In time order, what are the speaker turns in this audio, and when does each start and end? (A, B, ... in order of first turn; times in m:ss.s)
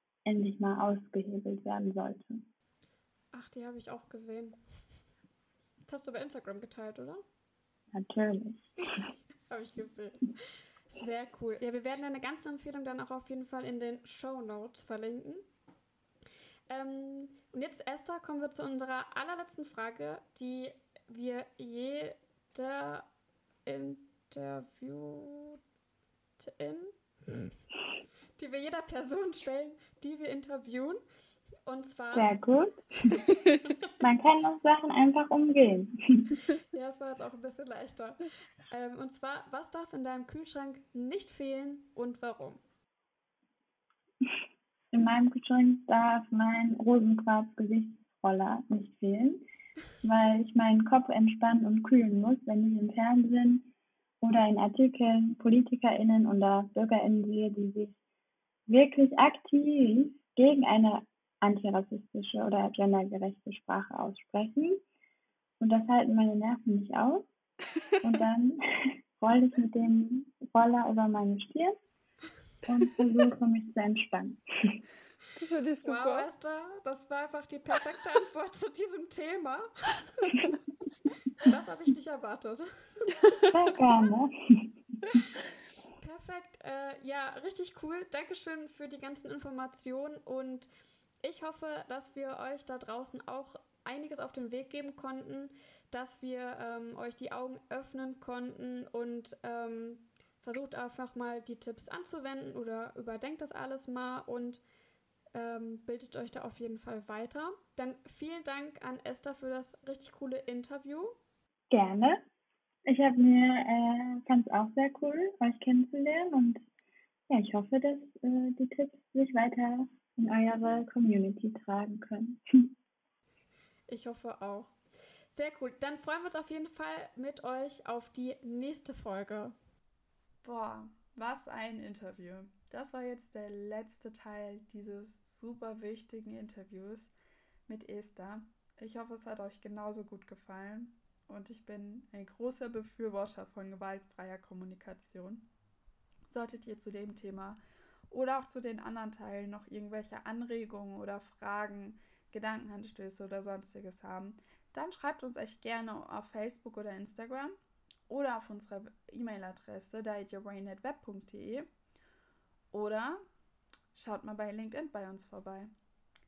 0:00.2-0:02.5 A
0:03.3-0:04.6 B
0:05.9-0:07.2 B
0:07.9-0:08.7 A
0:09.5-0:10.4 B
0:10.9-0:15.4 B
0:16.7-0:23.1 B
0:23.6-0:25.6 B
0:26.4-0:27.5 B
0:28.4-0:31.0 B
0:31.7-0:32.3 B
0:32.1-0:32.8 A
0:34.0-0:36.3 A
0:36.7-0:38.2 B
0:38.7-0:42.6 B
0:44.9-0:49.4 A
0:50.0-0:58.0 A
0:58.7-1:04.8 A
1:05.6-1:07.3 A
1:08.0-1:11.8 A
1:12.7-1:14.8 A
1:15.4-1:16.3 C
1:15.8-1:20.6 B
1:21.4-1:23.2 B
1:23.5-1:24.8 A
1:26.0-1:30.7 B
1:31.2-1:44.6 B
1:45.3-1:51.2 B
1:51.7-1:52.2 A
1:52.9-1:56.6 A
1:57.3-2:02.7 A
2:03.9-2:04.7 B
2:05.3-2:09.6 B
2:10.4-2:17.1 C
2:17.7-2:25.5 C
2:26.3-2:27.6 C
2:28.1-2:37.6 C
2:38.1-2:41.7 C
2:42.7-2:43.2 C
2:43.9-2:45.7 C